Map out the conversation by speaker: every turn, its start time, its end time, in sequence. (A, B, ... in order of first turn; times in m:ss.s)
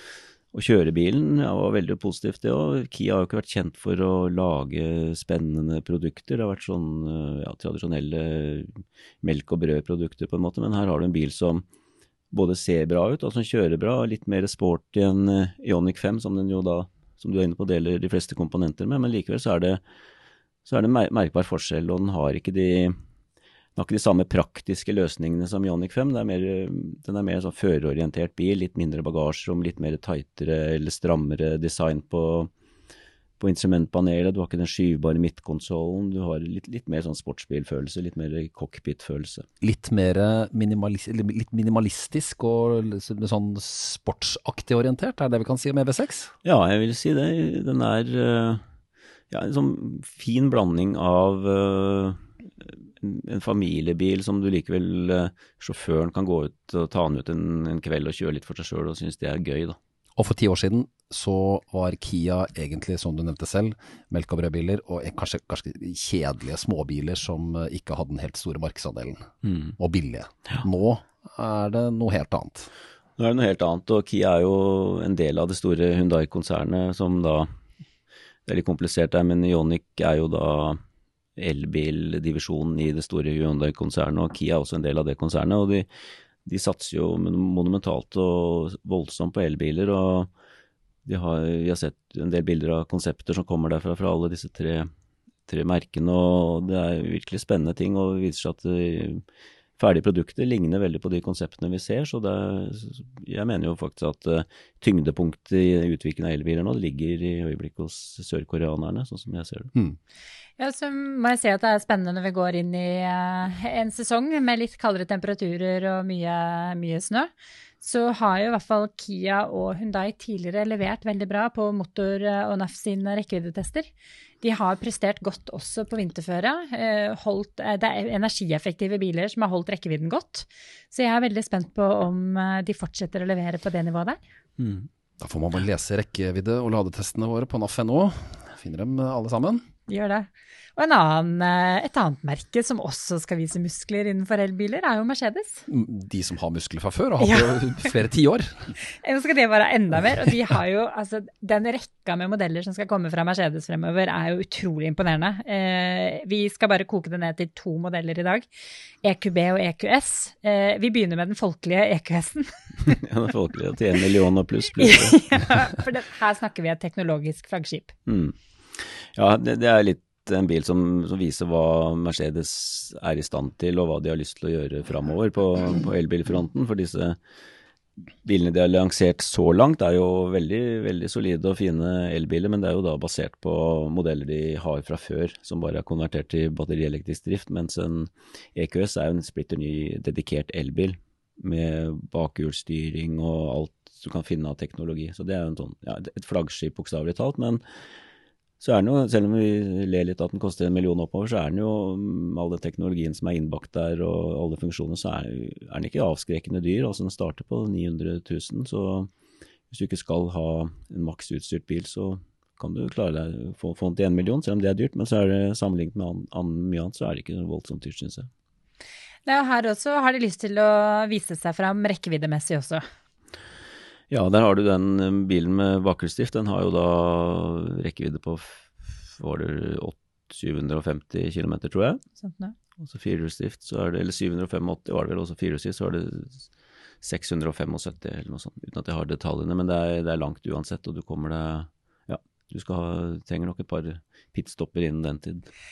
0:00.5-0:11.6 A
0:12.3-0:19.8 A
0:20.7-0:23.0 A
0:23.8-0:32.5 A
0:33.4-0:39.5 A
0:39.6-0:46.3 B
0:46.4-0:48.6 A
0:49.3-0:59.8 A
1:00.2-1:12.7 B
1:09.4-1:09.8 A
1:13.2-1:17.5 A
1:18.5-1:20.8 A
1:21.4-1:25.9 A
1:26.4-1:30.3 A
1:31.0-1:34.9 A
1:35.5-1:39.2 A
1:39.8-1:49.7 A
1:50.6-1:57.3 C
1:57.8-2:03.9 C
2:04.4-2:14.2 C
2:14.6-2:14.9 A
2:15.2-2:19.6 B
2:19.9-2:25.7 C
2:25.7-2:28.8 B
2:27.2-2:27.9 C
2:28.9-2:38.5 C
2:39.0-2:43.0 C
2:42.9-2:45.2 A
2:44.8-2:47.9 C
2:48.1-2:57.2 A
2:58.2-3:17.6 A
3:18.6-3:29.1 A
3:29.7-3:38.3 A
3:39.3-3:42.8 C
3:44.1-3:52.0 A
3:52.2-3:52.6 C
3:52.8-3:56.5 A
3:57.0-4:05.5 A